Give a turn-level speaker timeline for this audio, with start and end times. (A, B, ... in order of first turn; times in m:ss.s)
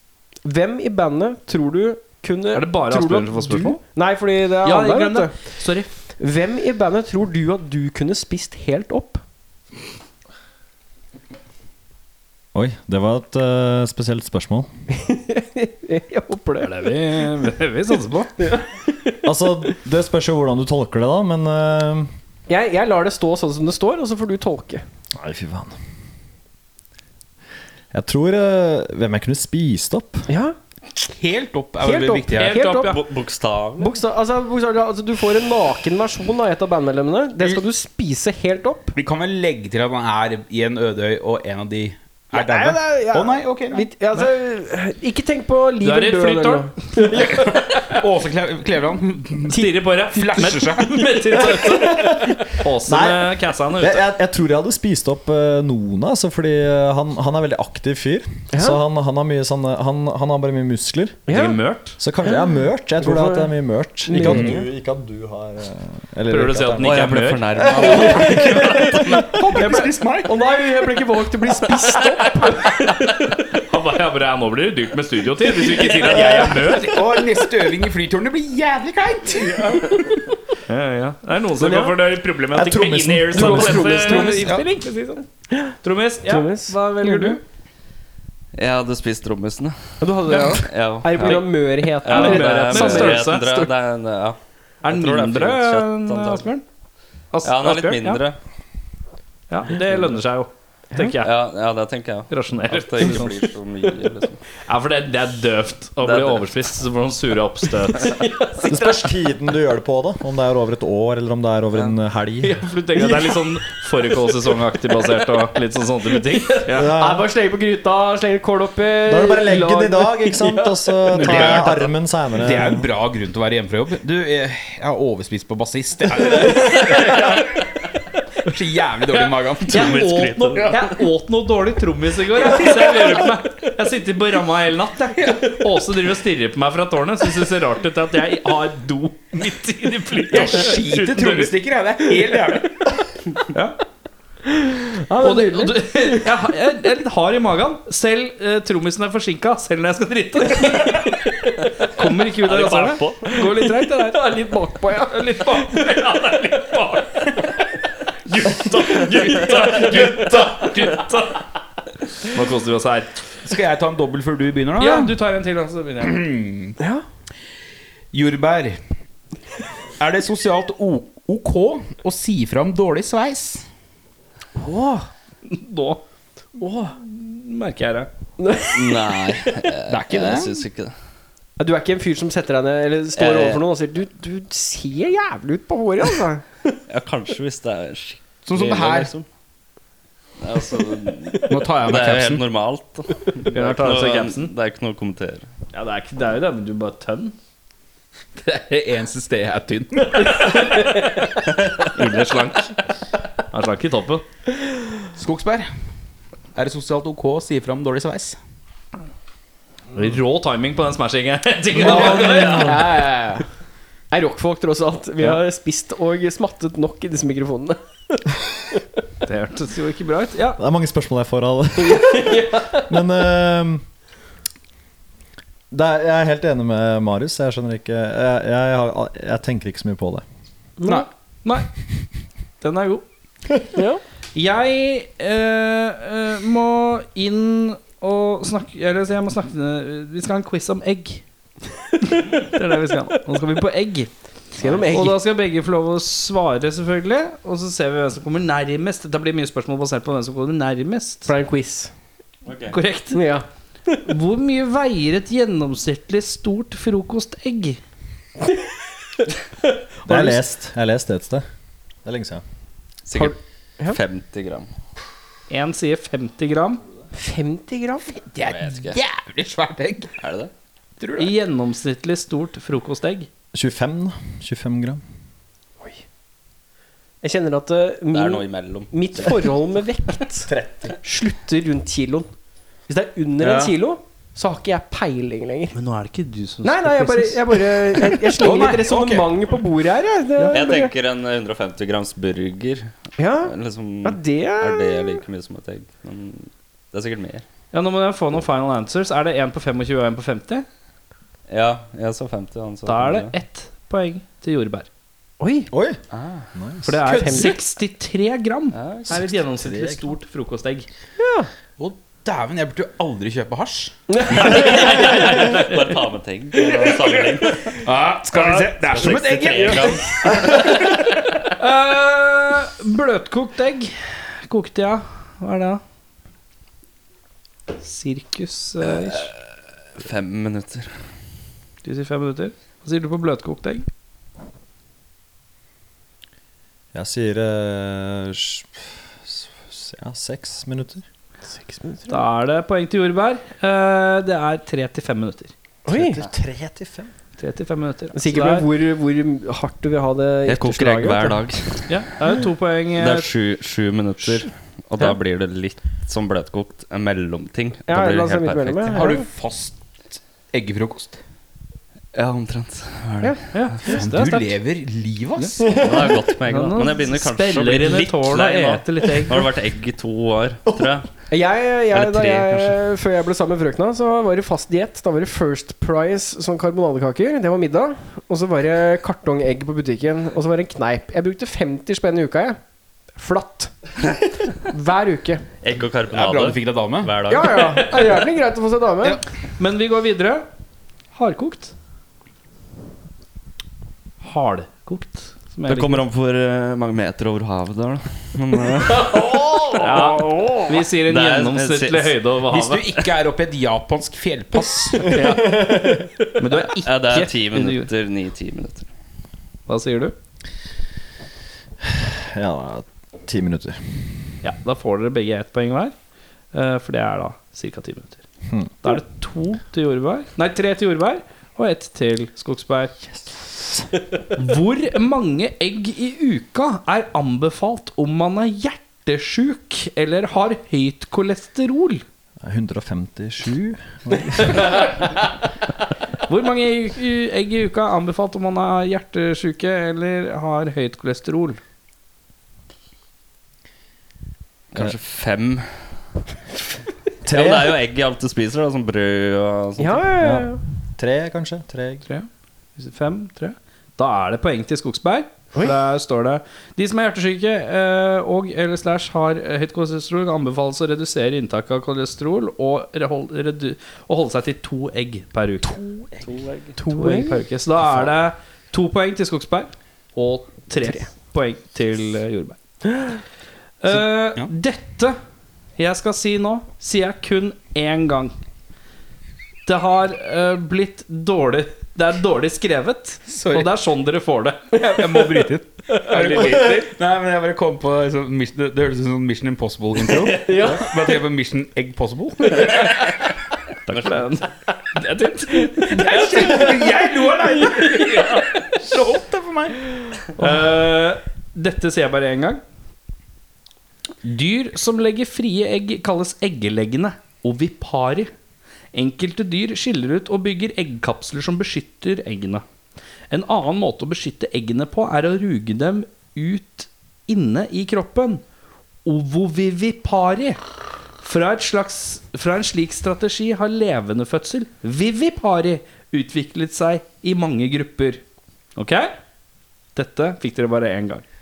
0:00.4-0:05.4 A
0:02.5-0:03.8 B
0:04.6-0:05.9 B
0:06.2-0:09.2 A
0:12.5-0:14.7 C
0:14.9-0:17.1 A
0:16.6-0:18.3 B
0:18.4-0:19.2 A
0:19.2-0:22.1 C
0:22.5-0:24.8 A
0:25.2-0:25.7 C
0:27.9-0:30.3 C
0:30.3-0:30.6 A
0:31.1-0:32.6 D
0:31.8-0:33.0 A
0:32.3-0:33.0 B
0:32.8-0:34.0 E
0:33.8-0:39.0 A
0:38.9-0:43.9 D
0:42.3-0:47.7 A
0:45.8-0:47.5 B
0:47.8-0:51.4 D
0:49.5-0:54.0 B
0:51.3-0:52.4 A
0:52.8-1:01.2 C
0:58.5-0:58.8 A
1:01.3-1:01.6 A
1:01.3-1:02.0 B
1:02.0-1:08.8 C
1:02.3-1:04.7 A
1:04.2-1:04.6 D
1:06.3-1:07.8 B
1:06.8-1:09.0 E
1:07.8-1:10.4 D
1:07.8-1:13.3 A
1:13.5-1:17.1 B
1:15.8-1:16.6 A
1:15.9-1:20.2 D
1:19.7-1:20.2 A
1:20.7-1:25.2 B
1:21.6-1:22.0 A
1:22.5-1:24.0 C
1:23.3-1:24.6 A
1:23.9-1:24.7 D
1:25.5-1:27.4 A
1:25.8-1:27.4 B
1:28.5-1:36.5 E
1:30.0-1:33.5 A
1:32.0-1:33.7 B
1:34.8-1:36.6 B
1:37.3-1:38.2 B
1:37.4-1:38.4 E
1:39.5-1:41.3 B
1:41.2-1:44.4 E
1:42.3-1:43.5 B
1:44.6-1:48.2 B
1:46.0-1:46.5 E
1:48.0-1:49.1 A
1:48.6-1:52.6 C
1:52.4-1:56.9 B
1:53.0-1:53.4 A
1:56.3-2:01.7 A
1:56.7-1:57.3 C
1:59.1-2:02.9 C
2:01.1-2:07.4 D
2:08.4-2:10.1 D
2:09.7-2:21.5 B
2:09.7-2:10.9 E
2:12.4-2:13.1 D
2:20.3-2:22.7 D
2:24.5-2:26.2 A
2:25.2-2:31.3 B
2:31.8-2:34.4 B
2:32.4-2:33.3 E
2:33.3-2:35.9 A
2:34.9-2:37.5 B
2:38.3-2:41.5 B
2:39.6-2:40.4 D
2:42.2-2:43.3 B
2:43.4-2:45.2 D
2:44.8-2:46.3 B
2:46.0-2:46.8 D
2:46.8-2:47.0 A
2:48.1-2:48.8 D
2:50.0-2:53.7 D
2:54.6-2:55.1 A
2:55.5-2:56.0 B
2:56.6-2:57.0 A
2:57.0-2:58.1 B
2:58.4-2:59.2 A
2:58.7-3:00.9 E
2:59.9-3:00.7 D
3:01.6-3:06.5 A
3:03.2-3:03.6 E
3:06.9-3:09.3 E
3:08.5-3:09.1 D
3:10.4-3:15.5 E
3:11.5-3:12.4 D
3:13.5-3:14.5 B
3:15.7-3:17.4 B
3:18.4-3:20.6 D
3:21.8-3:22.8 B
3:23.5-3:24.2 B
3:25.2-3:25.7 D
3:26.6-3:28.4 D
3:30.0-3:32.8 B
3:31.8-3:32.9 C
3:31.8-3:33.4 A
3:34.1-3:38.2 A
3:39.2-3:40.6 B
3:40.6-3:43.8 C
3:41.8-3:42.9 A
3:45.7-3:50.2 C
3:50.8-3:51.1 A
3:52.6-3:53.0 B
3:53.7-3:54.0 A
3:54.4-4:01.2 B
4:02.2-4:04.1 B
4:04.6-4:05.2 A
4:04.6-4:04.9 E
4:04.8-4:11.3 B
4:11.3-4:11.9 A
4:12.5-4:12.8 E
4:12.7-4:13.3 B
4:13.1-4:14.0 A
4:14.0-4:17.8 B
4:20.1-4:20.4 A
4:20.1-4:21.4 C
4:22.0-4:22.4 C
4:23.1-4:24.7 E
4:23.1-4:24.0 A
4:25.5-4:26.8 B
4:27.1-4:28.2 A
4:28.2-4:30.1 D
4:28.4-4:29.0 E
4:30.2-4:30.5 E
4:31.0-4:31.3 D
4:31.2-4:33.3 B
4:33.5-4:35.0 C
4:37.2-4:40.5 A
4:38.1-4:39.4 E
4:40.5-4:41.0 C
4:41.0-4:42.3 A
4:42.9-4:45.8 A
4:43.4-4:43.8 D
4:45.7-4:48.3 B
4:46.6-4:50.9 A
4:48.4-4:49.4 D
4:50.5-4:57.4 E
4:53.2-4:55.2 A
4:57.7-5:00.7 B
5:01.5-5:03.3 E
5:02.9-5:04.9 B
5:05.4-5:05.7 A
5:05.7-5:06.0 C
5:06.1-5:06.5 E
5:06.5-5:07.2 C
5:06.8-5:10.9 B
5:07.0-5:07.6 A
5:08.7-5:09.2 E
5:09.1-5:10.1 C
5:11.2-5:11.5 A
5:11.8-5:14.7 D
5:14.1-5:15.2 A
5:14.4-5:17.8 E
5:14.5-5:15.8 B
5:17.8-5:20.7 D
5:18.9-5:20.7 E
5:21.5-5:25.8 B
5:27.8-5:29.3 B
5:28.8-5:29.4 E
5:30.0-5:31.0 E
5:31.8-5:33.9 B
5:36.9-5:41.0 C
5:41.5-5:42.2 A
5:42.1-5:45.5 B
5:45.9-5:46.2 A
5:45.9-5:47.1 C
5:47.4-5:48.7 B
5:48.1-5:51.4 A
5:50.5-5:52.0 E
5:51.9-5:53.3 B
5:53.0-5:59.1 E
5:57.9-5:59.3 A
5:58.9-5:59.8 D
6:00.5-6:01.2 D
6:02.1-6:03.4 E
6:03.5-6:04.6 B
6:03.9-6:05.8 D
6:05.6-6:11.1 E
6:06.5-6:09.5 B
6:11.3-6:22.6 A
6:11.9-6:12.8 E
6:23.2-6:23.7 A
6:24.6-6:25.4 A
6:25.6-6:28.0 E
6:26.1-6:27.1 D
6:27.3-6:29.2 A
6:29.6-6:30.5 B
6:31.1-6:31.7 B
6:34.2-6:36.0 B
6:35.7-6:39.4 E
6:39.7-6:42.9 B
6:41.0-6:42.2 E
6:42.5-6:45.2 D
6:45.1-6:47.9 B
6:46.6-6:48.9 E
6:49.7-6:50.1 B
6:51.9-6:54.0 C
6:54.4-6:55.9 B
6:56.5-6:58.2 B
6:58.8-7:02.9 B
7:03.2-7:03.9 C
7:04.4-7:12.0 B
7:12.4-7:15.0 C
7:14.4-7:15.2 B
7:16.3-7:21.6 B
7:24.7-7:25.7 E
7:27.2-7:27.9 C
7:27.3-7:30.2 E
7:29.8-7:30.6 A
7:30.2-7:32.0 C
7:32.1-7:46.1 B
7:46.2-7:46.7 E
7:46.8-7:47.4 A
7:46.9-7:52.6 B
7:53.8-7:55.2 B
7:55.8-7:58.3 B
7:59.7-8:06.9 B
8:03.3-8:03.7 D
8:04.9-8:05.5 A
8:04.9-8:05.2 D
8:06.1-8:12.8 D
8:10.3-8:10.8 A
8:13.9-8:16.6 B
8:13.9-8:14.2 E
8:15.9-8:19.8 D
8:18.0-8:18.4 B
8:20.4-8:22.6 B
8:24.2-8:28.3 B
8:28.9-8:32.6 B
8:33.3-8:38.4 B
8:39.0-8:40.6 B
8:41.2-8:48.2 B
8:48.8-8:49.1 B
8:50.0-8:51.2 B